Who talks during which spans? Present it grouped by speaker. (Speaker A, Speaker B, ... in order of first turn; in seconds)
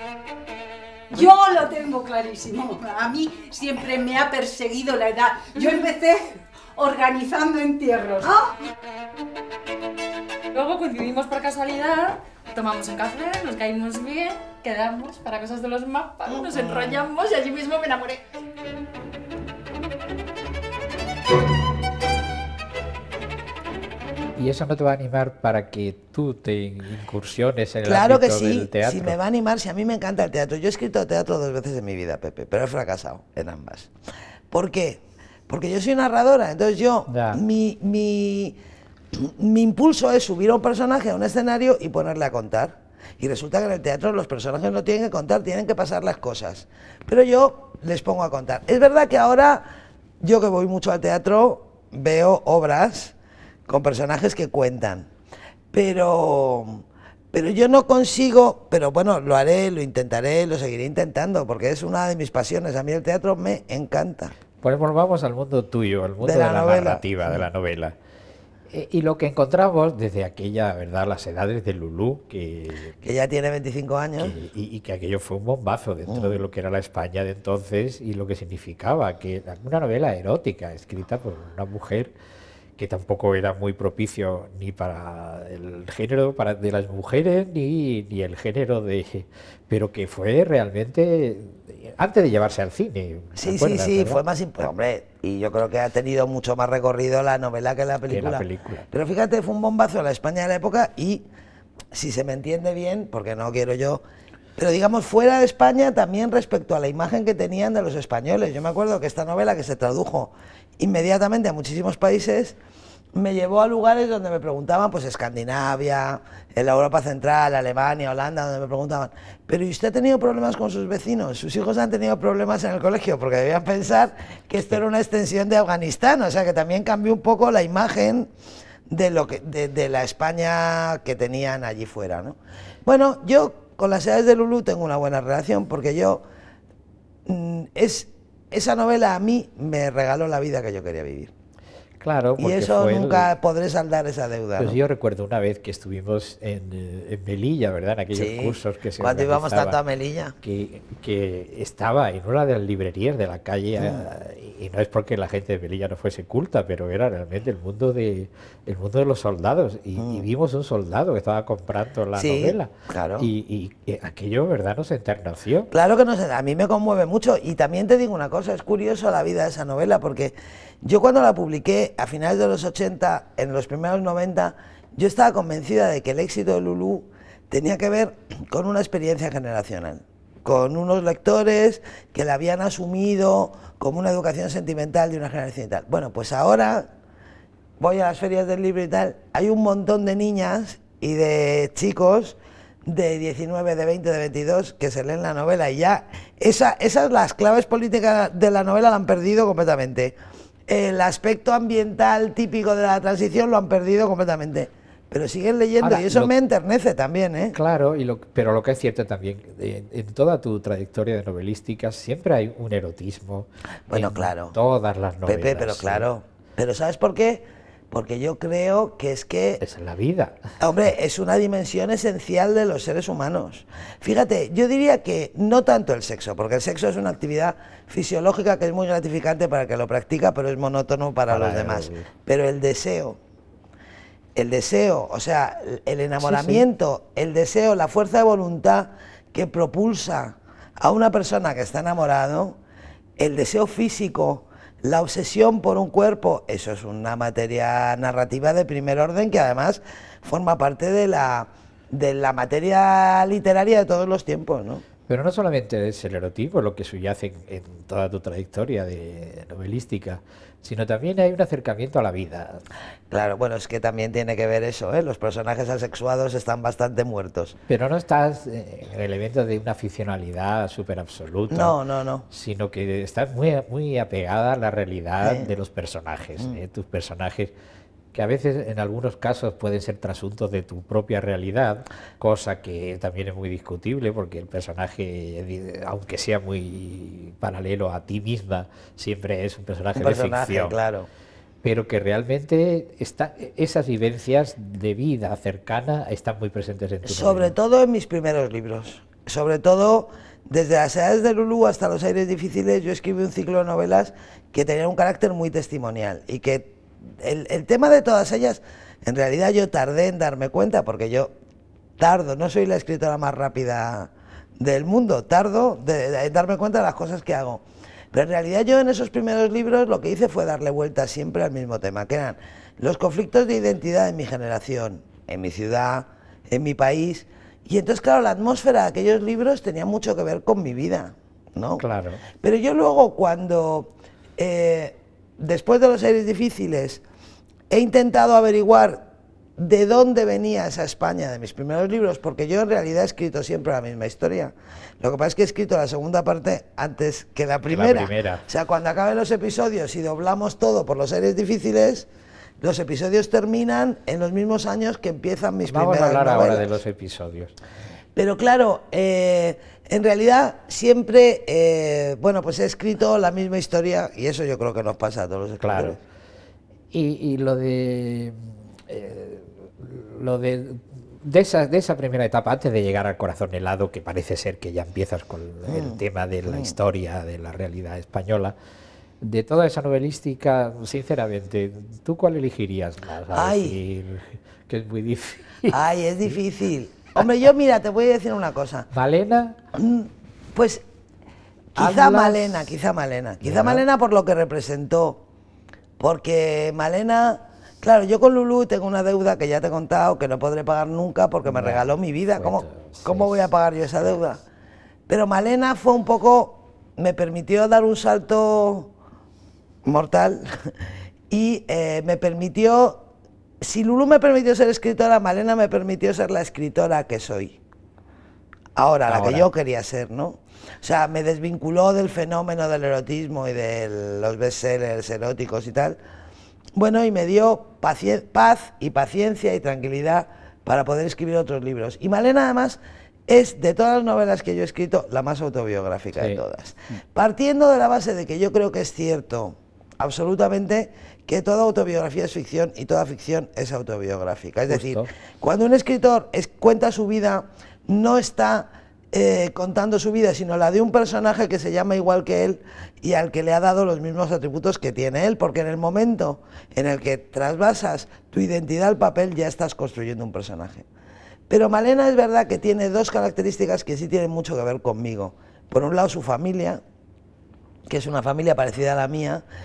Speaker A: 1.1-8.6
Speaker B: 10.5-18.2
Speaker C: 24.4-29.2, 37.1-37.4, 64.6-67.9, 68.7-73.0, 74.2-82.1, 82.8-94.2, 98.1-98.9, 142.0-143.3, 144.6-149.8, 150.4-165.7, 205.8-206.3, 207.5-216.1, 219.6-220.6, 231.3-232.1, 236.2-236.6, 255.1-262.6, 267.7-271.8, 272.3-277.5, 278.1-290.8, 291.6-297.5, 331.8-332.2, 347.7-348.4, 355.7-357.6, 365.6-366.0, 366.9-378.6, 379.2-385.8, 388.9-389.6, 391.8-392.7, 393.4-393.9, 401.5-403.4, 419.1-419.5, 436.1-436.4, 444.7-445.1
Speaker D: 27.9-33.9, 34.5-38.6, 39.1-49.7, 50.2-53.1, 53.7-55.1, 55.7-64.3, 66.2-67.4, 73.0-74.4, 76.1-76.4, 93.4-101.2, 101.9-104.0, 104.6-112.6, 113.2-128.3, 128.9-136.2, 137.3-141.3, 142.4-144.8, 148.1-150.3, 153.8-154.1, 160.0-160.3, 162.2-163.3, 165.7-186.9, 187.8-200.2, 200.7-207.6, 213.9-214.6, 215.3-219.6, 220.6-233.2, 234.4-242.6, 243.2-254.8, 263.1-267.6, 271.5-272.3, 275.2-275.5, 290.0-291.1, 297.0-311.3, 312.0-331.9, 332.4-337.0, 337.7-339.1, 339.6-352.1, 352.6-356.7, 358.1-366.0, 375.7-376.8, 383.3-383.8, 385.7-388.9, 389.7-390.8, 391.8-395.2, 396.0-404.4, 405.1-408.9, 409.9-413.1, 413.6-417.6, 418.8-426.0, 426.8-460.9, 461.5-466.8, 467.9-469.4